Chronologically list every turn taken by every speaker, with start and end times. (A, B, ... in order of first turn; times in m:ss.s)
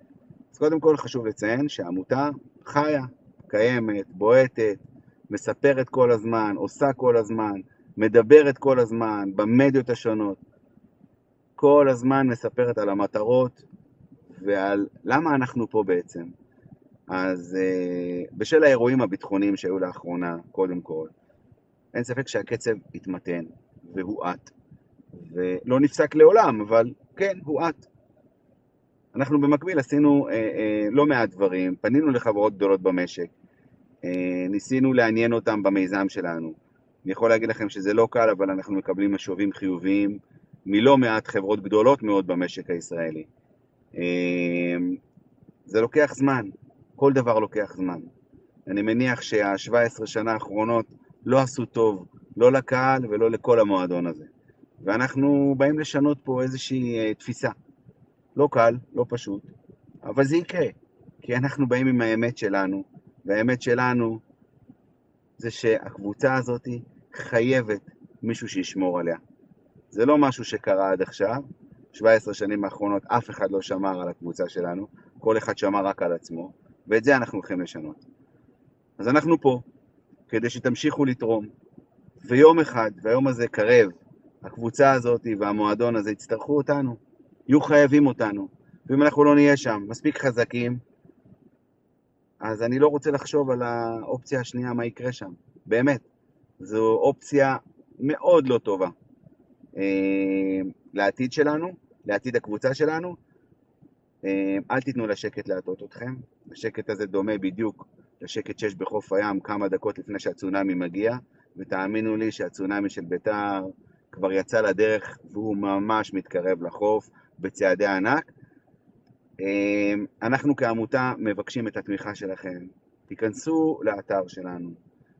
0:00.5-0:10.4 A
0:11.6-0:13.6 A
0:14.3-0:16.3 A
0:17.1-0:21.1 A
0:21.9-0:24.5 A
0:25.2-0:27.9 A
0:29.2-0:33.3 A
0:34.0-0:43.3 A
0:44.0-0:45.0 A
0:45.7-0:48.1 A
0:48.7-0:54.3 A
0:54.8-0:57.6 A
0:58.4-0:59.5 A
1:00.0-1:04.2 A
1:05.4-1:09.2 A
1:09.9-1:18.0 A
1:19.0-1:19.6 A
1:20.3-1:21.5 A
1:22.2-1:30.8 A
1:32.4-1:36.0 A
1:36.6-1:38.9 A
1:39.8-1:43.2 A
1:44.2-1:58.3 A
1:59.4-2:04.8 A